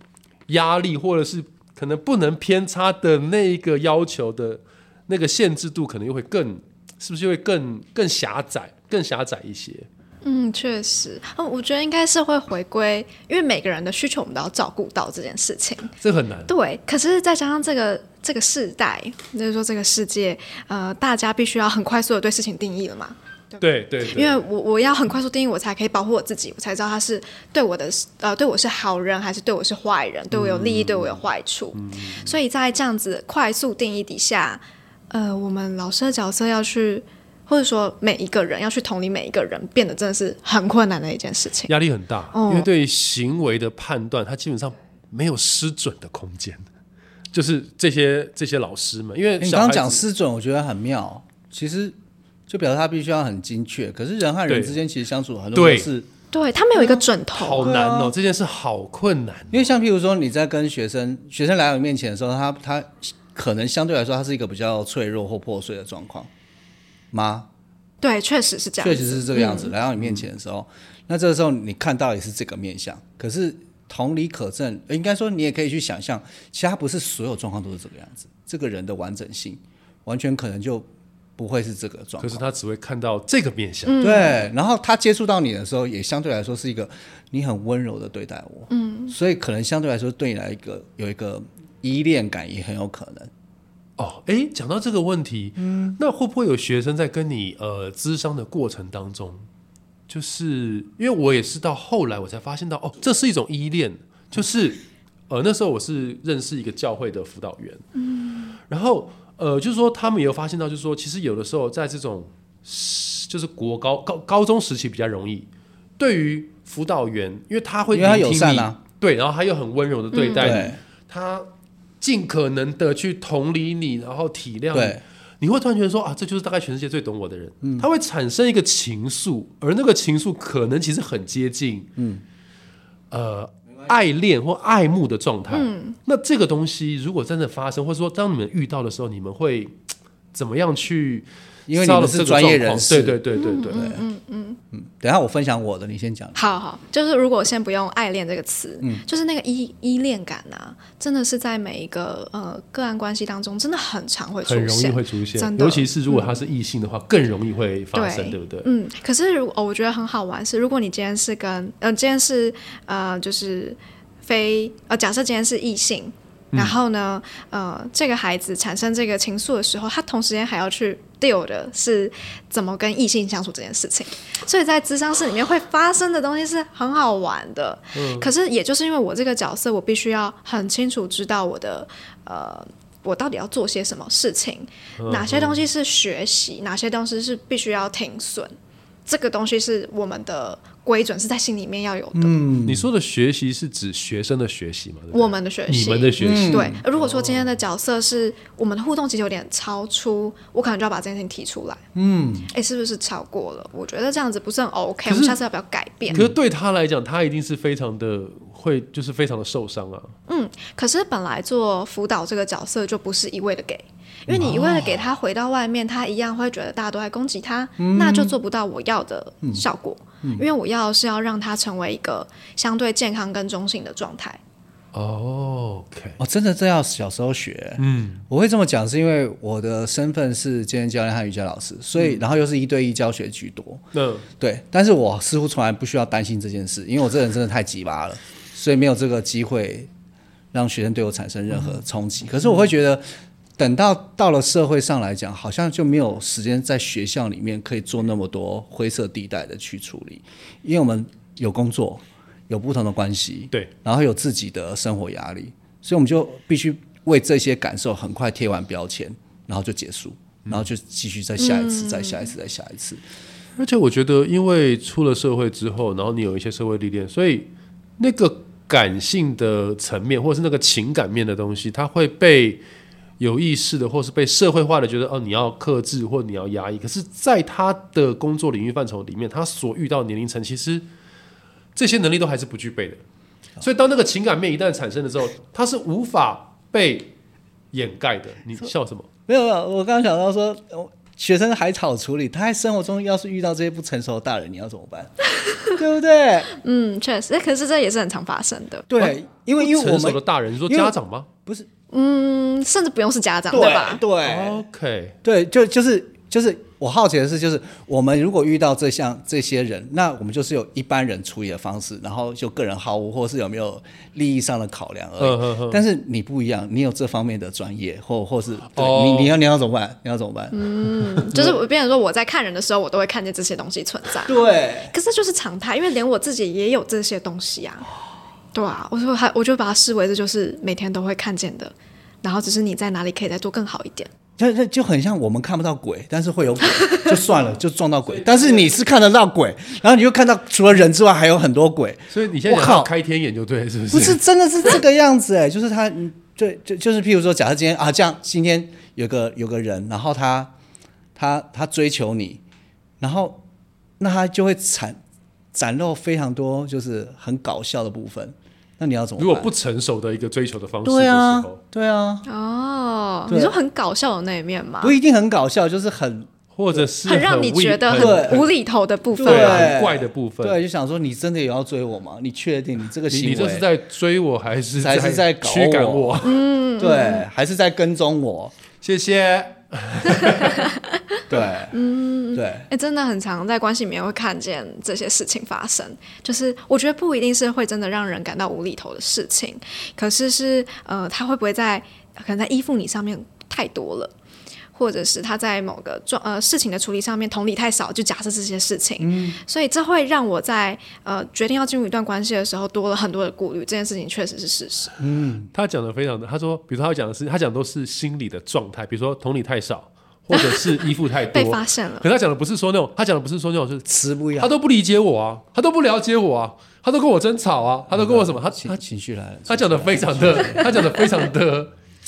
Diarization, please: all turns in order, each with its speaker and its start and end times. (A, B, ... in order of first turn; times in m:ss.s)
0:00.5-0:09.9 A
0:10.2-0:16.0 B
0:16.0-0:16.5 A
0:16.5-0:41.7 B
0:23.6-0:24.4 A
0:30.3-0:32.4 A
0:41.7-0:46.6 A
0:42.3-0:42.7 B
0:47.3-0:50.0 A
0:49.4-0:52.0 C
0:52.5-0:56.1 C
0:54.5-0:54.8 A
0:55.6-0:55.9 A
0:56.3-0:57.7 B
0:57.3-0:59.7 A
0:57.6-0:58.1 C
0:59.5-1:06.3 C
1:07.1-1:07.5 C
1:08.0-1:09.8 B
1:08.8-1:22.4 C
1:10.0-1:10.2 A
1:22.2-1:24.1 A
1:23.9-1:24.4 B
1:24.0-1:33.3 C
1:28.7-1:29.2 B
1:34.0-1:39.5 A
1:35.6-1:36.0 C
1:40.1-1:47.8 A
1:48.0-1:48.6 B
1:48.7-2:01.5 A
1:57.9-1:58.8 C
2:00.1-2:00.7 B
2:00.4-2:00.8 C
2:02.0-2:11.9 A
2:04.7-2:05.0 C
2:07.6-2:07.9 C
2:12.0-2:12.2 C
2:13.1-2:19.8 A
2:15.5-2:16.0 B
2:20.3-2:23.8 A
2:21.7-2:23.2 C
2:23.3-2:24.6 B
2:23.7-2:24.0 C
2:24.7-2:26.4 C
2:26.4-2:36.4 B
2:34.4-2:38.7 A
2:37.9-3:08.5 B
2:57.9-2:58.3 A
3:05.0-3:05.6 A
3:09.1-3:12.4 B
3:12.1-3:12.9 C
3:12.6-3:17.6 A
3:15.1-3:21.8 B
3:16.2-3:16.8 C
3:21.9-3:22.5 C
3:22.5-3:26.2 B
3:25.1-3:25.4 A
3:26.1-3:26.4 C
3:26.1-3:30.1 A
3:30.3-3:44.4 B
3:34.3-3:35.0 C
3:37.8-3:38.4 C
3:44.9-3:46.2 A
3:46.2-3:53.8 C
3:47.8-3:48.2 A
3:53.9-3:54.3 A
3:54.4-3:59.9 C
4:00.5-4:03.0 C
4:03.6-4:23.0 C
4:21.4-4:22.3 B
4:23.6-4:32.6 A
4:33.2-4:40.9 A
4:41.8-4:43.0 A
4:43.6-4:47.1 A
4:47.7-4:49.1 A
4:49.3-4:55.1 C
4:55.4-4:55.8 B
4:55.8-4:56.5 C
4:56.5-4:58.9 B
4:58.9-5:01.7 C
4:59.0-5:01.3 A
5:01.9-5:04.0 B
5:03.5-5:04.6 C
5:04.2-5:05.2 A
5:05.2-5:20.6 C
5:15.2-5:15.8 A
5:18.7-5:19.4 A
5:20.5-5:27.9 B
5:24.2-5:24.9 C
5:28.5-5:34.1 B
5:34.4-5:42.9 C
5:36.7-5:37.1 B
5:38.1-5:38.7 A
5:42.1-5:44.2 A
5:43.9-5:50.5 C
5:51.2-5:52.4 C
5:53.0-5:53.4 C
5:54.0-5:55.0 C
5:55.5-5:59.5 C
5:59.2-6:01.6 A
6:00.8-6:02.2 C
6:02.3-6:04.9 B
6:03.3-6:03.6 C
6:04.8-6:06.9 C
6:06.5-6:08.5 A
6:07.0-6:09.7 B
6:07.9-6:08.5 C
6:09.2-6:13.7 C
6:09.2-6:10.6 A
6:13.1-6:16.4 A
6:14.8-6:18.5 C
6:16.2-6:17.3 B
6:18.8-6:20.6 A
6:20.1-6:34.1 B
6:21.3-6:21.8 C
6:22.3-6:22.7 C
6:34.7-6:45.0 B
6:39.0-6:39.4 C
6:45.0-6:45.5 C
6:45.5-6:58.8 A
6:50.3-6:52.1 B
6:53.8-6:54.5 C
6:57.9-7:00.9 C
6:59.5-7:01.7 A